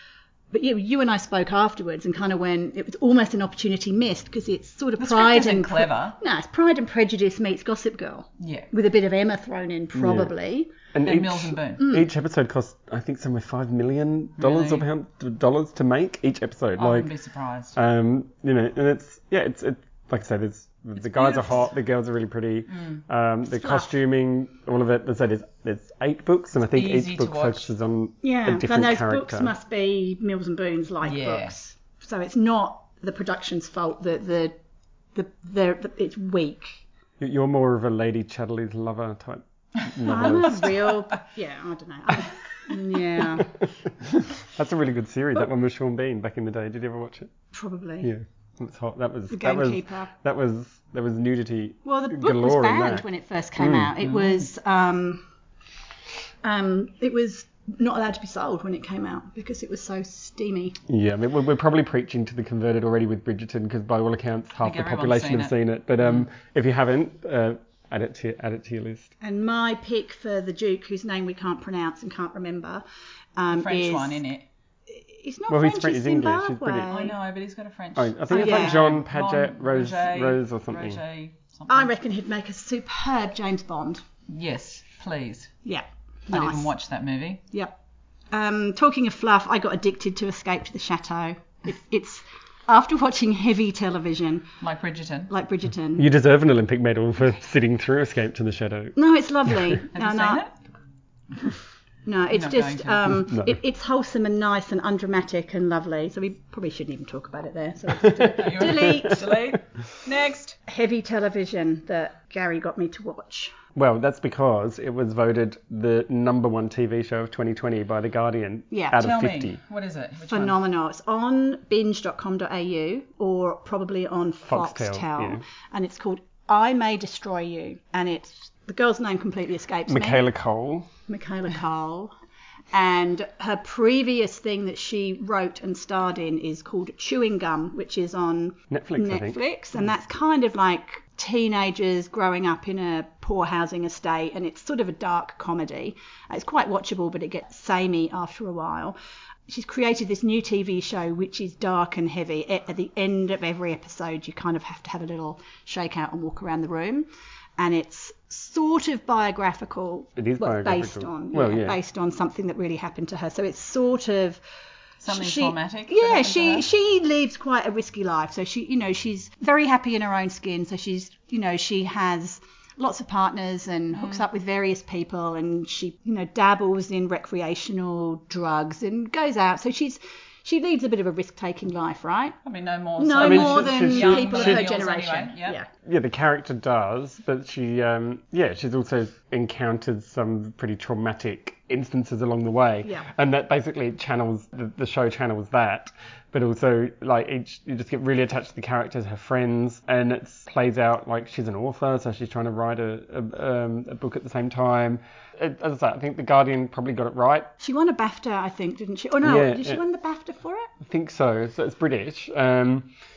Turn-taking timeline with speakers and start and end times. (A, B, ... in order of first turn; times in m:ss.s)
0:00.5-0:10.7 A
0:05.0-0:06.2 B
0:08.4-0:08.7 B
0:09.9-0:10.3 C
0:10.9-0:17.1 C
0:11.0-0:11.9 B
0:14.4-0:14.9 B
0:16.8-0:17.8 B
0:17.8-0:29.5 C
0:21.0-0:21.7 B
0:22.8-0:23.0 B
0:23.5-0:23.9 A
0:26.7-0:27.7 B
0:28.2-0:34.6 A
0:31.0-0:31.5 B
0:35.2-0:36.8 A
0:37.2-0:40.8 C
0:40.0-0:43.5 A
0:40.1-0:40.9 B
0:43.4-0:47.3 C
0:47.5-0:48.1 A
0:48.0-0:53.1 C
0:49.3-0:50.1 A
0:51.8-0:55.2 A
0:53.6-0:54.0 C
0:56.4-1:00.8 A
1:00.9-1:09.1 C
1:04.6-1:05.5 B
1:09.2-1:12.8 A
1:13.4-1:14.2 A
1:13.5-1:14.5 B
1:14.9-1:17.2 A
1:15.5-1:17.0 C
1:16.9-1:21.9 B
1:18.0-1:21.0 C
1:18.3-1:18.8 A
1:21.7-1:24.0 A
1:24.3-1:25.5 B
1:25.6-1:26.7 A
1:26.3-1:27.4 B
1:27.5-1:27.8 A
1:28.3-1:34.5 A
1:34.6-1:35.3 B
1:35.3-1:36.1 A
1:36.0-1:39.8 C
1:39.0-1:40.4 A
1:39.9-1:40.5 B
1:42.0-1:49.4 A
1:42.3-1:43.2 B
1:48.0-1:49.4 C
1:48.4-1:50.6 B
1:50.7-1:53.5 A
1:53.8-1:59.6 C
1:58.7-1:59.0 A
1:59.0-2:00.6 B
2:00.3-2:10.2 A
2:04.5-2:05.4 C
2:09.9-2:10.9 C
2:11.1-2:12.1 A
2:12.7-2:29.0 A
2:18.7-2:19.4 C
2:29.5-2:44.4 A
2:40.2-2:41.8 C
2:45.0-2:46.7 B
2:45.1-3:02.4 A
2:54.0-2:54.2 B
3:02.4-3:05.6 B
3:03.0-3:05.7 A
3:03.2-3:04.7 C
3:05.8-3:27.5 C
3:27.6-3:30.7 A
3:29.2-3:29.8 C
3:30.8-3:32.9 C